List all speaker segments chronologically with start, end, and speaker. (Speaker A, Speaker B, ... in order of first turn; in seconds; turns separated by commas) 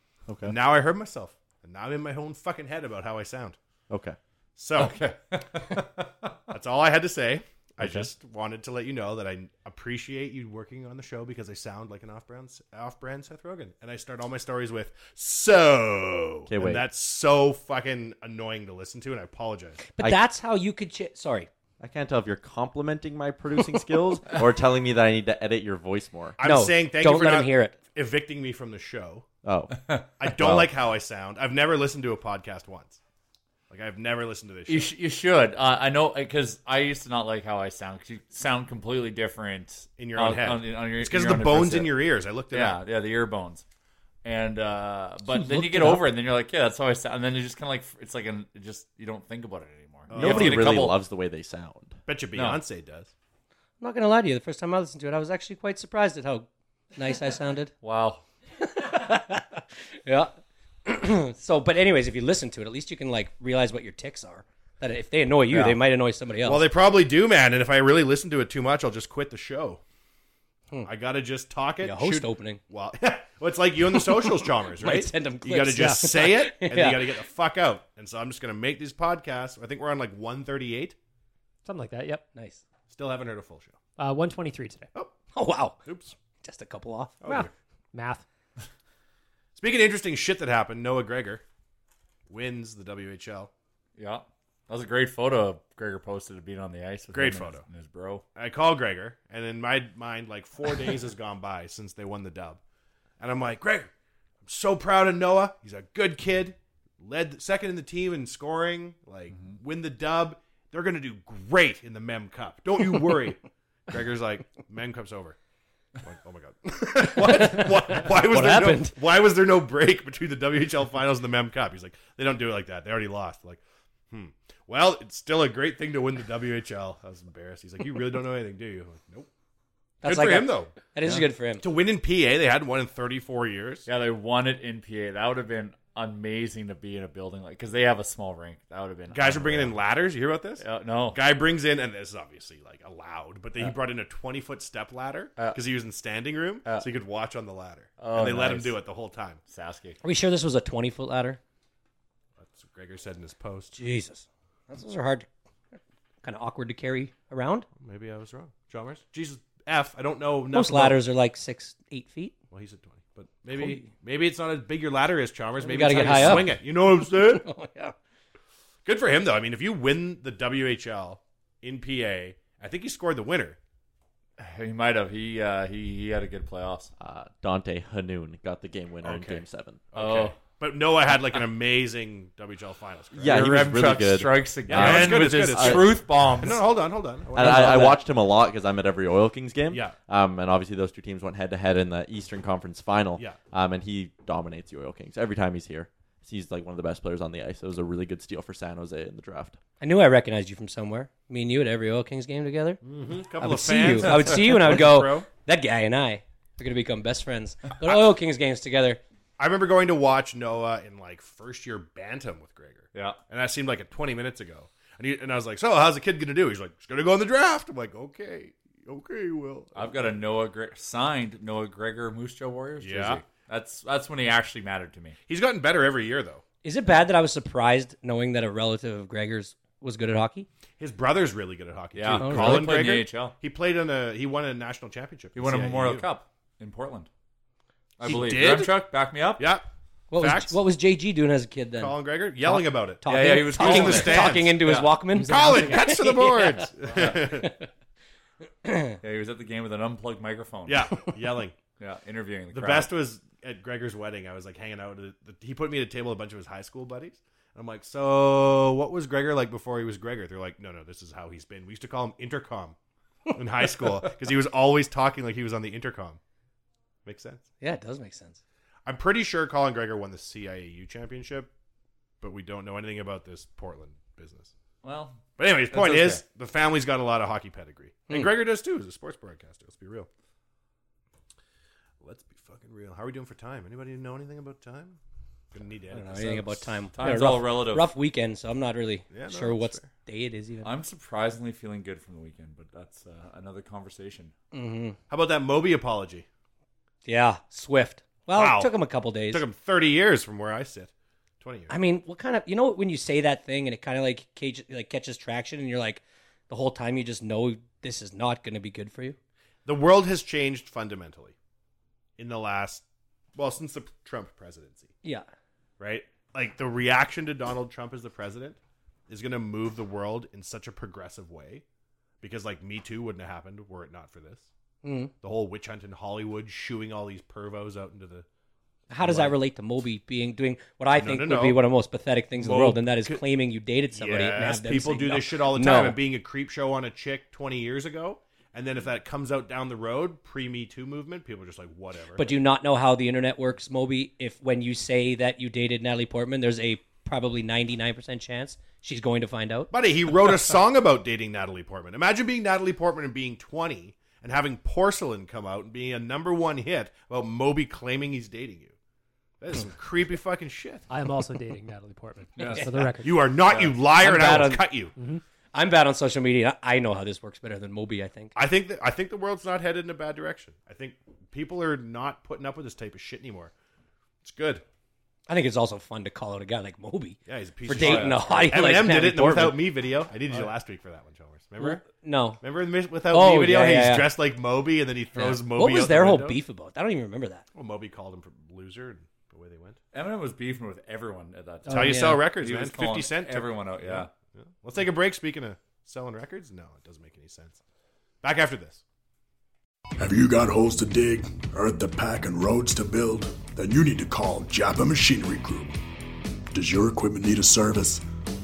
Speaker A: 0.3-0.5, Speaker B: 0.4-3.6, Speaker A: 3.9-4.2, Speaker B: 4.6-5.0, Speaker C: 4.8-6.4, Speaker B: 6.5-19.8, Speaker A: 7.8-8.1, Speaker A: 16.5-16.8, Speaker D: 20.0-21.5, Speaker A: 21.8-26.4, Speaker B: 26.4-29.3, Speaker D: 26.4-27.8, Speaker A: 29.4-30.6, Speaker B: 30.2-33.0, Speaker B: 33.7-34.9, Speaker C: 34.7-41.9, Speaker B: 40.0-42.8, Speaker C: 42.5-43.6, Speaker C: 44.2-51.0, Speaker D: 45.4-46.0, Speaker B: 50.1-50.9, Speaker A: 50.1-52.0, Speaker B: 52.1-53.1, Speaker C: 52.4-52.6, Speaker D: 53.8-57.7, Speaker C: 57.8-58.2, Speaker D: 58.6-60.3, Speaker D: 60.9-66.7, Speaker B: 66.4-69.8, Speaker B: 70.8-81.0, Speaker D: 71.8-72.6, Speaker D: 74.0-77.1, Speaker E: 75.8-76.0, Speaker E: 81.7-82.3, Speaker D: 82.3-82.6, Speaker B: 82.9-83.8, Speaker E: 84.0-84.9, Speaker D: 85.3-85.8, Speaker B: 85.8-86.1, Speaker D: 86.4-87.3, Speaker B: 87.2-87.5, Speaker E: 87.3-88.2, Speaker B: 89.5-91.4, Speaker B: 92.3-93.5, Speaker C: 94.0-98.2, Speaker B: 97.1-97.6, Speaker B: 98.3-102.6, Speaker B: 103.2-103.9, Speaker B: 104.4-115.4, Speaker B: 116.0-129.3, Speaker D: 117.1-119.0, Speaker B: 130.0-130.7, Speaker D: 130.0-131.6, Speaker B: 131.6-133.9, Speaker C: 133.9-139.8, Speaker B: 139.1-149.4, Speaker C: 140.6-141.2, Speaker C: 148.0-148.8, Speaker C: 149.5-150.0, Speaker D: 150.0-151.4, Speaker B: 152.4-153.8, Speaker D: 153.8-155.3, Speaker D: 156.2-157.7, Speaker B: 157.8-161.0, Speaker D: 160.5-162.4, Speaker B: 162.5-167.4, Speaker D: 163.5-163.9, Speaker D: 165.6-167.9, Speaker C: 166.1-166.5, Speaker B: 168.8-173.6, Speaker C: 174.4-176.9, Speaker A: 177.0-179.8, Speaker B: 179.0-183.5, Speaker C: 179.9-180.4, Speaker A: 183.2-186.0, Speaker C: 183.2-186.6, Speaker B: 184.7-188.0, Speaker A: 187.3-199.6, Speaker C: 187.5-187.8, Speaker B: 189.7-189.9, Speaker D: 199.8-202.8, Speaker B: 202.8-205.3, Speaker D: 203.4-209.0, Speaker B: 209.4-220.0, Speaker C: 212.9-213.2, Speaker C: 219.8-225.2, Speaker B: 222.8-223.2, Speaker B: 225.3-226.4, Speaker D: 226.6-230.5, Speaker B: 230.8-236.1, Speaker C: 231.9-233.3, Speaker D: 232.2-232.7, Speaker C: 235.3-237.1, Speaker C: 238.0-239.5, Speaker B: 238.0-238.8, Speaker B: 239.4-240.6, Speaker D: 240.1-246.7, Speaker B: 241.8-247.5, Speaker C: 243.1-244.9, Speaker E: 245.1-246.1, Speaker C: 246.9-247.2, Speaker D: 247.2-247.7, Speaker D: 248.6-249.0, Speaker C: 249.0-251.0, Speaker B: 250.7-251.6, Speaker C: 251.8-252.9, Speaker B: 252.5-262.8, Speaker B: 263.3-266.2, Speaker B: 267.1-267.4, Speaker D: 267.6-268.4, Speaker B: 268.9-271.5, Speaker B: 272.2-274.5, Speaker C: 274.8-276.2, Speaker B: 275.4-280.1, Speaker B: 282.0-285.0, Speaker B: 285.5-286.7, Speaker D: 285.9-290.7, Speaker C: 286.9-287.9, Speaker B: 289.1-289.9, Speaker C: 290.6-294.3, Speaker D: 294.5-295.0, Speaker B: 295.1-296.3, Speaker D: 297.1-299.4, Speaker B: 298.3-298.7, Speaker B: 299.3-301.7, Speaker D: 301.7-309.2, Speaker B: 309.6-311.4, Speaker B: 312.2-314.9, Speaker B: 315.8-318.6, Speaker B: 319.1-321.6, Speaker B: 322.2-324.5, Speaker D: 324.8-325.1, Speaker B: 325.2-328.3, Speaker D: 328.9-336.0, Speaker B: 329.0-329.4, Speaker B: 330.9-331.6, Speaker B: 332.4-333.2, Speaker B: 333.9-342.3, Speaker D: 342.2-349.7, Speaker B: 349.7-358.8, Speaker B: 359.4-360.9, Speaker E: 360.9-363.3, Speaker C: 362.4-362.6, Speaker D: 362.4-362.7, Speaker B: 363.0-364.9, Speaker D: 363.5-364.7, Speaker E: 365.0-365.2, Speaker D: 365.5-368.3, Speaker B: 368.4-373.5, Speaker B: 374.2-374.6, Speaker D: 375.3-379.6, Speaker B: 377.3-381.9, Speaker C: 377.8-378.5, Speaker D: 381.6-382.4, Speaker B: 382.4-386.4, Speaker D: 383.1-384.1, Speaker D: 385.2-387.4, Speaker B: 387.5-389.8, Speaker C: 389.9-394.1, Speaker D: 391.7-392.2, Speaker B: 391.7-397.6, Speaker B: 398.2-398.8, Speaker F: 400.0-405.8, Speaker F: 406.5-408.0